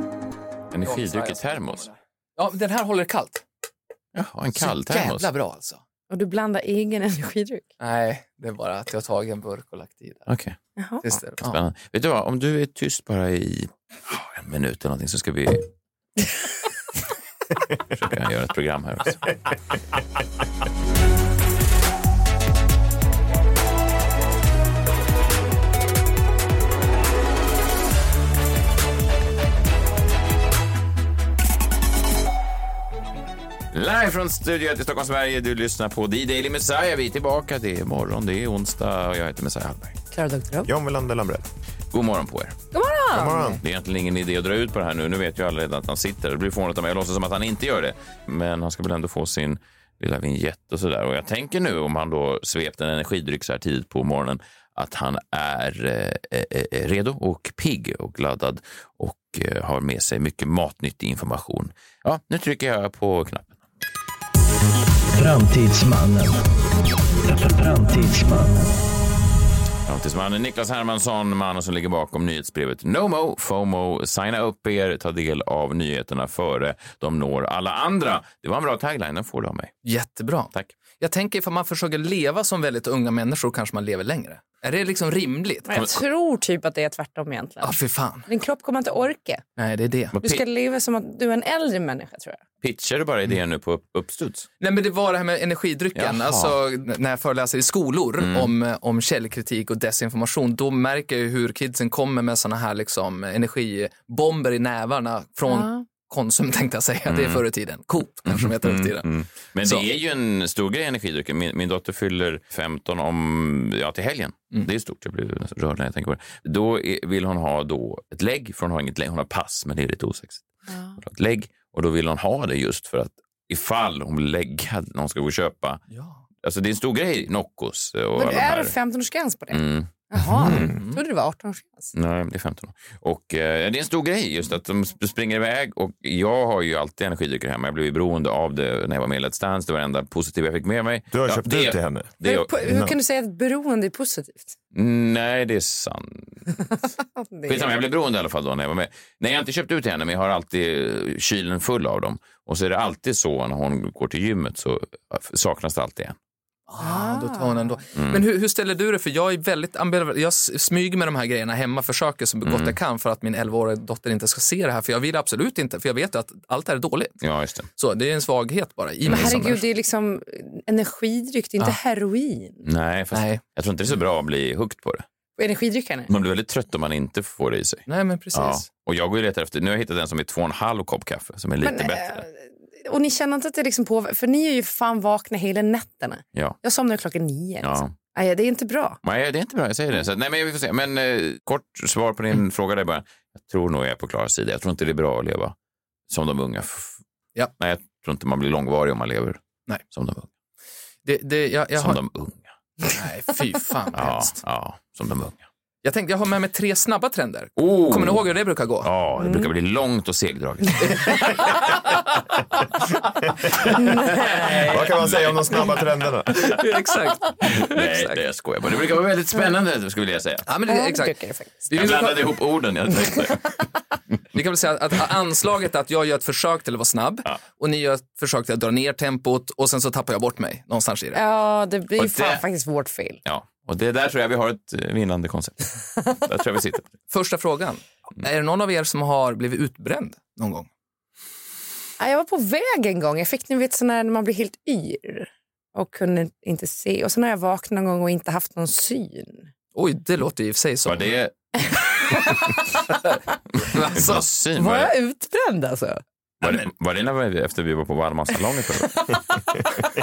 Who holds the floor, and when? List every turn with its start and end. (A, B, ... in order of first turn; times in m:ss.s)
0:00.7-0:01.9 A
0:00.8-0:03.4 B
0:04.1-0:05.3 A
0:04.5-0:05.8 B
0:06.1-0:07.6 C
0:07.8-0:10.3 B
0:10.3-0:10.6 A
0:10.8-0:11.2 C
0:11.0-0:11.6 B
0:11.4-0:15.6 A
0:17.9-0:19.3 A
0:33.7-0:40.0 A
0:40.1-0:40.7 C
0:40.7-0:41.4 D
0:41.9-0:42.6 A
0:42.7-0:43.6 C
0:43.1-0:43.6 D
0:43.6-1:03.6 A
1:05.1-1:06.4 E
1:07.2-1:08.7 E
1:09.9-1:19.7 A
1:19.8-1:25.7 B
1:25.7-1:27.8 C
1:27.6-1:28.3 B
1:28.3-1:29.4 C
1:29.6-1:30.1 B
1:30.1-1:30.4 A
1:30.2-1:32.4 C
1:32.6-1:34.5 A
1:34.6-1:49.1 B
1:35.9-1:36.6 A
1:38.2-1:38.5 A
1:45.4-1:45.9 C
1:47.0-1:47.4 A
1:48.2-2:00.4 A
2:00.7-2:01.0 C
2:01.0-2:05.8 A
2:05.9-2:06.2 B
2:06.4-2:08.7 A
2:08.2-2:11.9 C
2:09.5-2:09.9 A
2:10.4-2:10.8 D
2:10.4-2:10.7 A
2:10.6-2:11.0 B
2:11.9-2:22.8 A
2:21.1-2:22.1 D
2:22.2-2:24.6 C
2:24.7-2:26.4 A
2:27.2-2:27.7 C
2:27.5-2:36.2 A
2:36.7-2:47.2 B
2:36.8-2:37.8 C
2:38.0-2:38.2 A
2:42.4-2:42.8 A
2:47.2-2:47.7 A
2:47.8-2:49.6 B
2:49.1-2:52.6 C
2:52.6-2:55.0 A
2:53.1-2:53.4 B
2:55.4-2:56.1 C
2:56.1-3:02.2 A
2:57.9-2:58.7 B
3:01.6-3:09.0 C
3:07.6-3:07.9 A
3:09.0-3:15.6 A
3:16.1-3:17.0 A
3:17.6-3:19.4 A
3:19.9-3:20.3 A
3:21.0-3:22.0 B
3:21.8-3:22.5 A
3:22.9-3:24.4 B
3:23.9-3:25.5 A
3:25.8-3:28.9 B
3:27.6-3:31.4 A
3:30.8-3:32.0 B
3:33.8-3:34.4 C
3:34.0-3:35.7 A
3:34.4-3:34.8 B
3:34.5-3:36.6 D
3:36.3-3:38.2 B
3:37.4-3:40.5 A
3:40.5-3:41.2 B
3:40.7-3:41.7 C
3:41.7-3:42.3 B
3:41.7-3:43.6 A
3:44.3-3:51.2 B
3:51.1-3:53.2 C
3:52.0-3:52.4 A
3:53.2-3:56.9 A
3:57.1-4:00.7 B
4:02.0-4:09.5 C
4:09.8-4:11.1 B
4:10.9-4:11.3 A
4:13.1-4:14.2 B
4:13.9-4:14.9 A
4:14.6-4:16.0 C
4:16.4-4:16.7 B
4:16.4-4:19.2 A